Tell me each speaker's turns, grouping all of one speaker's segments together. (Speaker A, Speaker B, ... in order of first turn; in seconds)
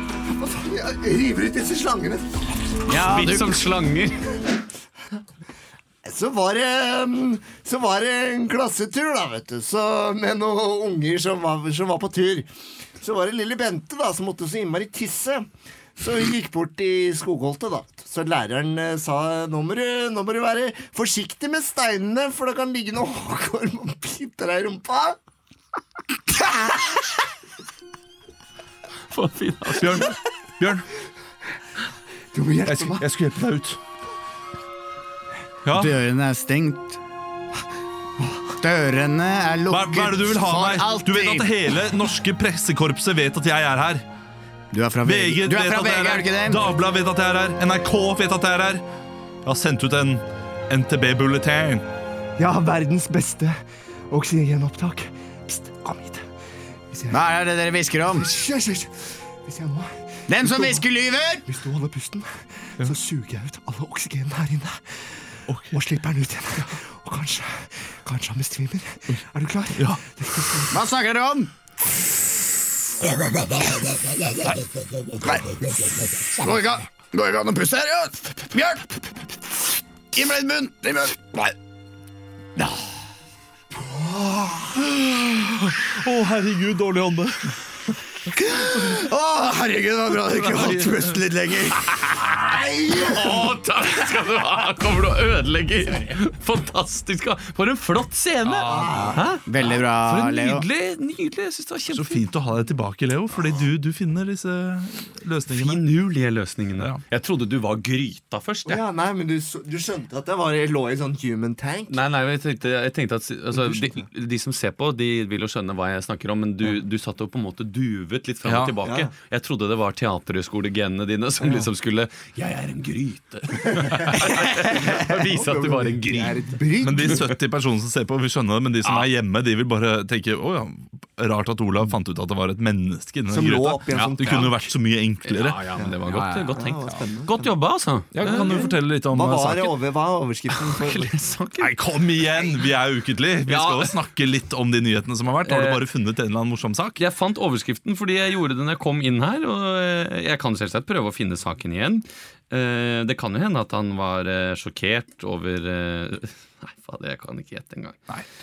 Speaker A: 0.3-2.8, 6.0-25.2, 32.3-33.0, 52.4-53.6, 54.1-56.2, 56.9-57.3, 58.1-60.8, 61.5-70.8, 92.5-93.1, 98.8-99.2, 108.7-112.0, 113.5-114.0, 118.8-119.1, 123.8-127.3, 133.3-134.6, 135.8-137.5, 138.2-141.2
Speaker B: 2.9-3.6, 35.7-37.0, 38.6-41.8, 44.7-46.7, 57.1-58.3, 60.3-61.5, 70.7-71.5, 73.8-74.5, 75.2-79.2, 80.1-81.5, 88.5-92.6, 99.1-100.7, 136.1-136.4
Speaker C: 2.9-4.2, 29.1-30.1, 92.9-102.2, 105.5-108.8, 111.9-127.2, 128.8-129.1, 133.9-134.5, 135.2-138.7, 140.5-141.7, 143.5-144.0, 145.4-145.8, 147.0-158.0
Speaker D: 29.8-30.9, 32.7-33.8, 35.6-36.0, 39.7-44.0, 45.0-48.8, 49.5-51.9, 65.5-65.8, 69.8-70.0, 84.8-87.6, 90.3-91.2, 98.5-99.1, 101.9-105.8, 118.5-118.8, 126.8-135.6, 138.1-139.7, 141.6-147.0